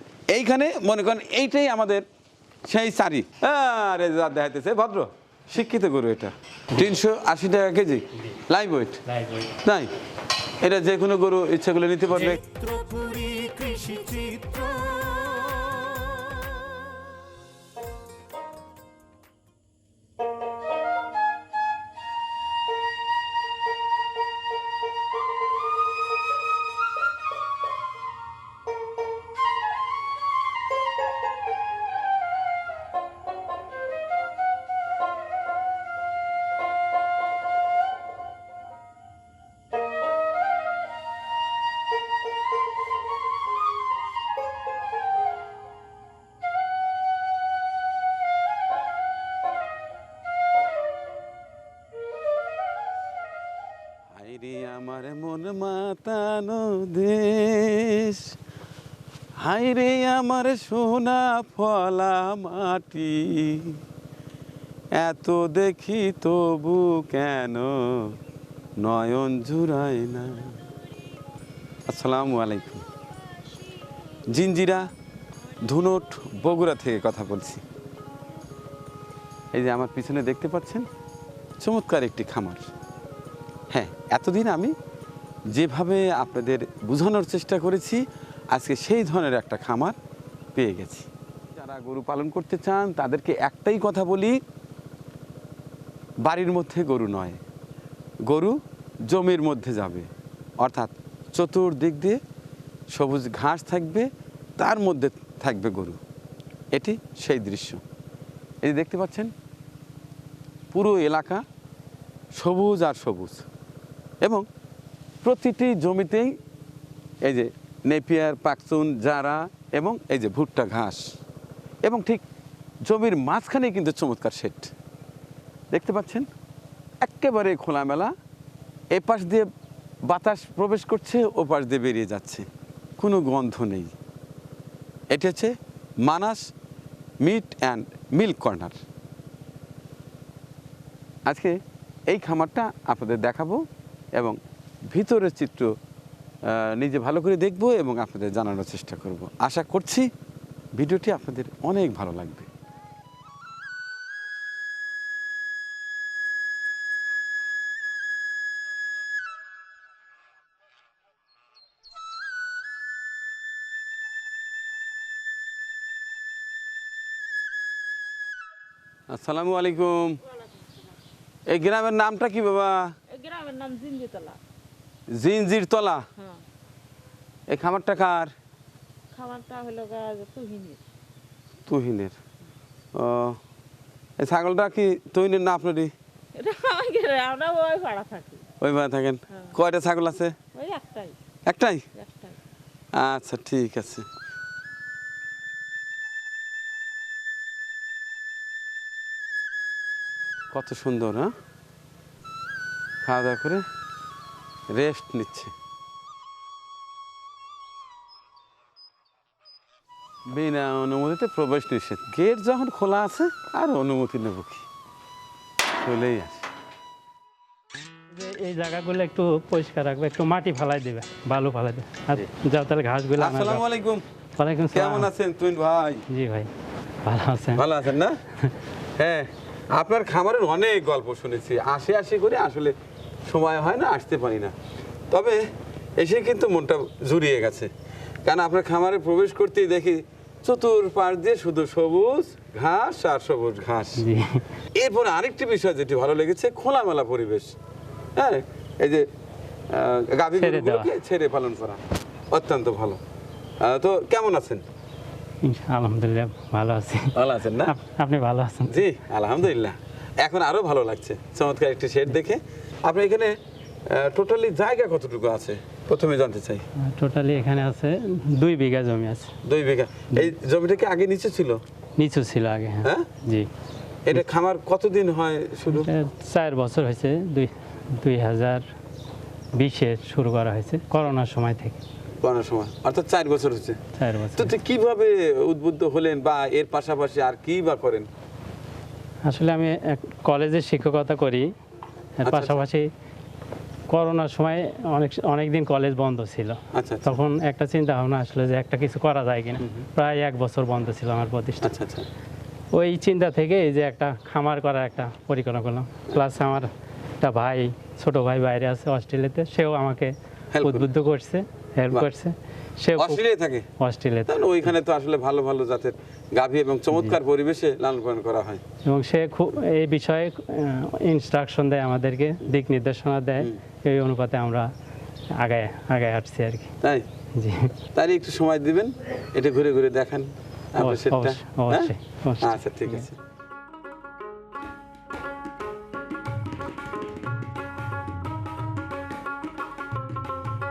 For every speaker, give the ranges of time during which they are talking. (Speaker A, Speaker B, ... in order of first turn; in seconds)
Speaker A: 0.3-2.0, 2.7-9.0, 9.6-9.9, 10.6-12.4, 54.1-58.3, 59.4-63.8, 65.0-68.2, 68.8-70.7, 71.9-72.9, 74.3-74.9, 75.6-77.6, 79.5-80.9, 81.6-82.7, 83.7-84.8, 85.5-90.0, 90.5-94.4, 96.2-97.4, 98.3-102.2, 102.9-106.0, 106.7-107.8, 108.6-109.3, 110.7-111.4, 112.3-113.5, 115.2-116.3, 117.2-121.1, 121.8-122.2, 122.9-124.7, 125.7-126.3, 127.0-128.1, 128.9-129.5, 130.1-132.5, 133.0-133.9, 135.1-136.5, 137.2-138.8, 141.3-141.6, 142.1-144.4, 144.9-145.7, 146.4-150.1, 150.8-152.5, 169.1-170.2, 171.5-173.0, 175.1-176.1, 177.5-178.3, 181.7-182.2, 182.9-183.4, 184.2-185.9, 188.6-190.4, 191.5-191.9, 192.9-194.1, 200.5-201.3, 203.0-203.7, 204.7-205.5, 210.3-214.7, 215.8-216.4, 223.2-224.0, 224.7-226.1, 227.6-228.2, 229.0-232.7, 233.3-234.5, 235.1-235.5, 236.0-237.7, 238.2-244.1, 244.7-247.6, 248.2-249.1, 249.7-253.0, 253.6-254.6, 257.1-257.8, 258.7-263.4, 263.9-266.7, 269.4-271.6, 272.8-273.1, 274.1-275.9, 282.2-283.8, 284.4-288.1, 292.2-292.6, 296.7-297.2, 301.6-302.1, 310.5-310.9, 313.0-313.7, 314.3-318.6, 327.9-333.2
Speaker B: 8.2-8.4, 9.1-9.6, 12.1-16.0, 218.1-223.7, 224.4-225.1, 226.1-226.5, 227.0-227.7, 244.0-244.4, 250.4-250.9, 255.4-258.9, 266.8-269.3, 272.0-273.5, 275.7-278.7, 279.6-281.8, 283.9-284.5, 289.2-291.5, 292.2-292.9, 293.9-301.8, 302.7-313.2, 313.8-314.4, 316.9-317.2, 318.9-324.7, 325.4-326.7, 327.4-327.8, 330.8-333.1
Speaker C: 173.1-174.4, 179.1-180.8, 186.4-188.4, 190.6-191.2, 192.0-192.3